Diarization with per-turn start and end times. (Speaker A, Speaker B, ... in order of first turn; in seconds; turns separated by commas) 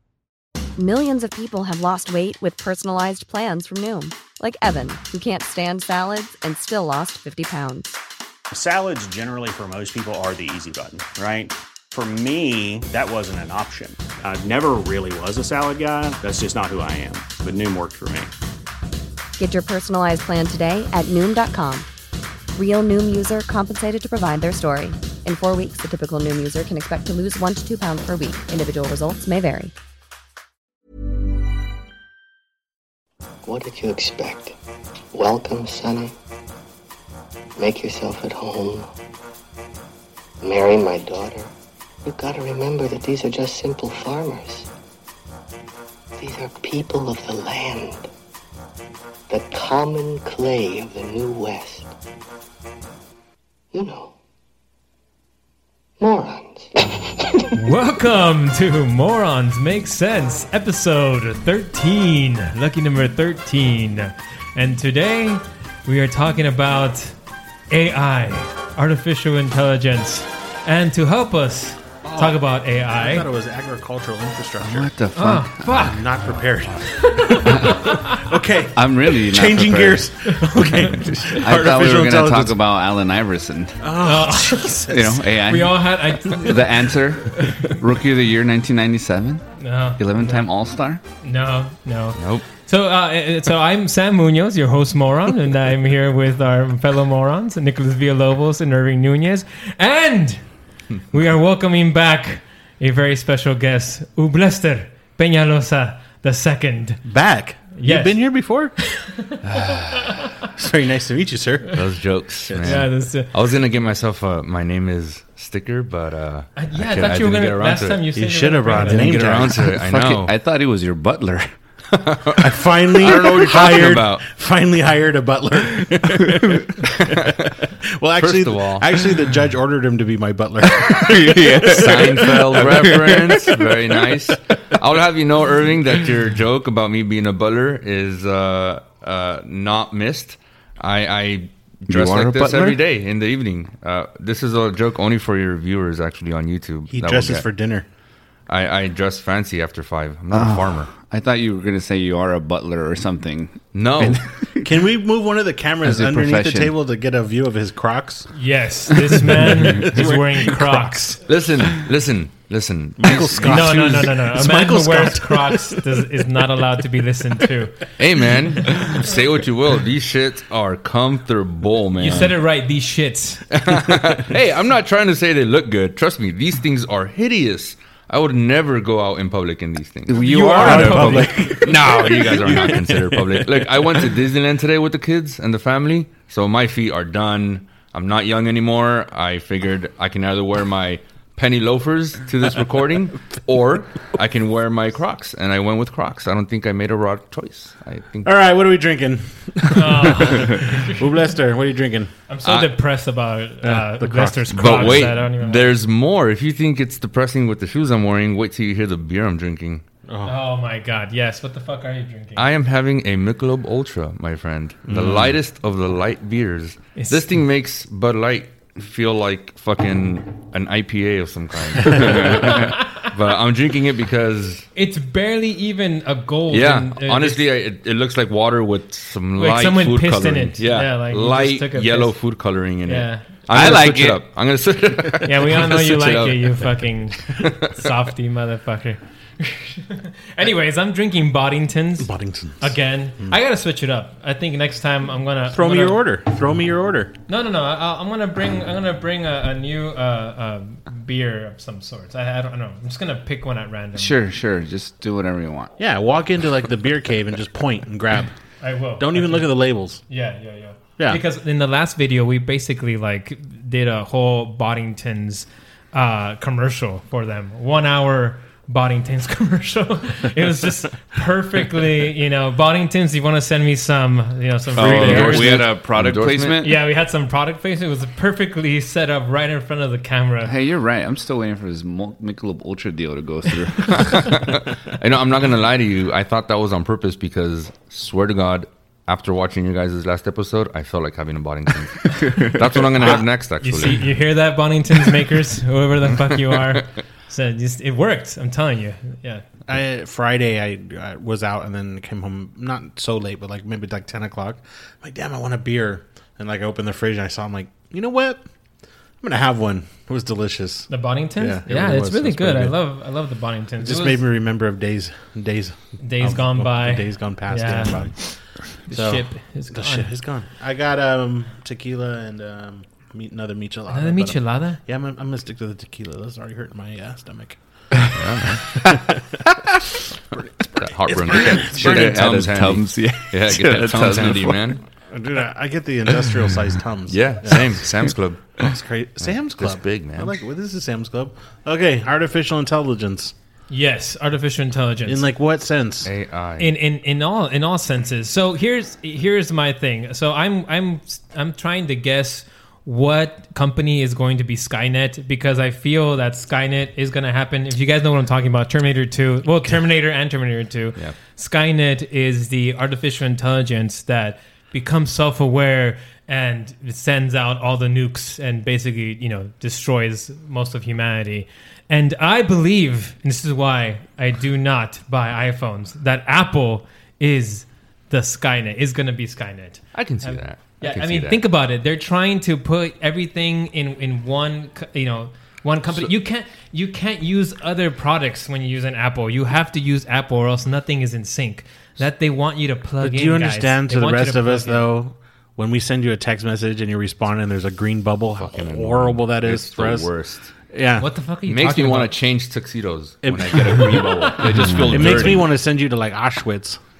Speaker A: 0.8-8.0, Speaker B: 8.5-18.3, Speaker A: 19.4-21.9, Speaker A: 22.6-29.7, Speaker C: 33.4-34.6, Speaker C: 35.1-36.2, Speaker C: 37.6-38.9, Speaker C: 40.4-41.5, Speaker C: 42.0-44.7, Speaker C: 46.1-48.1, Speaker C: 49.3-51.9, Speaker C: 53.7-54.1, Speaker C: 56.0-57.5, Speaker D: 57.5-67.2, Speaker D: 67.7-73.3, Speaker E: 72.0-74.9, Speaker F: 74.6-75.9, Speaker D: 75.2-76.0, Speaker E: 75.8-82.6, Speaker D: 76.9-78.3, Speaker F: 78.8-80.1, Speaker D: 80.5-80.9, Speaker F: 80.7-83.8, Speaker E: 83.8-85.2, Speaker D: 84.0-87.8, Speaker F: 84.9-89.4, Speaker D: 89.6-90.5, Speaker F: 90.0-91.0, Speaker D: 91.2-100.4, Speaker G: 92.2-92.5, Speaker D: 101.1-107.0, Speaker E: 107.1-108.8, Speaker D: 107.8-108.2, Speaker D: 108.8-110.5, Speaker G: 109.5-110.0, Speaker E: 110.5-111.8, Speaker G: 111.7-118.0, Speaker E: 112.5-112.8, Speaker D: 112.6-113.3, Speaker D: 116.6-119.2, Speaker E: 118.2-119.7, Speaker G: 118.7-120.3, Speaker F: 119.5-121.5, Speaker G: 121.9-124.3, Speaker E: 122.4-133.4, Speaker G: 126.8-127.6, Speaker G: 128.2-128.9, Speaker F: 130.7-133.6, Speaker G: 131.7-147.5, Speaker F: 141.9-142.8, Speaker E: 146.9-147.9, Speaker G: 148.5-150.9, Speaker F: 150.3-154.8, Speaker G: 153.7-154.2, Speaker E: 154.6-158.3, Speaker F: 155.8-156.8, Speaker D: 158.3-161.2, Speaker E: 159.0-161.2, Speaker G: 161.3-164.1, Speaker E: 163.0-166.0, Speaker D: 163.4-167.8, Speaker G: 168.0-172.4, Speaker D: 172.0-173.5, Speaker G: 173.5-180.2, Speaker F: 180.1-181.7, Speaker D: 180.1-181.7, Speaker E: 180.6-184.1, Speaker G: 181.6-198.3, Speaker E: 198.2-202.1, Speaker D: 199.8-201.1, Speaker D: 202.3-205.8, Speaker G: 202.4-202.7, Speaker E: 203.6-205.1, Speaker G: 204.5-209.8, Speaker E: 210.1-210.4, Speaker D: 210.2-212.5, Speaker G: 212.4-224.7, Speaker E: 214.9-215.4, Speaker D: 217.0-217.2, Speaker D: 222.3-223.1, Speaker D: 224.8-227.4, Speaker G: 226.5-236.7, Speaker D: 229.4-232.2, Speaker D: 232.9-233.2, Speaker F: 233.5-234.2, Speaker D: 235.2-242.1, Speaker G: 237.3-237.9, Speaker E: 242.0-243.3, Speaker D: 242.6-246.0, Speaker E: 245.5-247.1, Speaker D: 247.3-254.2, Speaker F: 254.0-255.7, Speaker E: 255.8-258.3, Speaker D: 258.6-259.5, Speaker E: 259.0-260.0, Speaker D: 260.1-275.6, Speaker F: 274.7-276.8, Speaker G: 274.8-276.6, Speaker D: 276.6-280.5, Speaker F: 280.4-284.4, Speaker G: 283.9-294.0, Speaker D: 293.6-299.4, Speaker E: 299.7-308.4, Speaker E: 309.2-312.8, Speaker D: 310.9-314.2, Speaker E: 313.8-327.6, Speaker D: 316.0-320.1, Speaker D: 323.9-324.8, Speaker G: 328.1-328.7, Speaker E: 330.8-332.5, Speaker G: 330.8-334.8, Speaker F: 331.3-334.8, Speaker E: 335.1-337.6, Speaker G: 337.1-338.6, Speaker E: 338.6-343.3, Speaker G: 339.2-340.3, Speaker D: 343.7-345.2, Speaker E: 345.1-346.1, Speaker G: 346.1-346.7, Speaker D: 346.6-394.9, Speaker G: 379.9-381.4, Speaker E: 393.0-400.1, Speaker G: 398.4-400.5, Speaker E: 400.7-401.1, Speaker D: 401.0-402.1, Speaker G: 401.5-405.5, Speaker E: 403.2-404.1, Speaker D: 404.0-404.4, Speaker F: 404.6-405.2, Speaker E: 404.9-406.8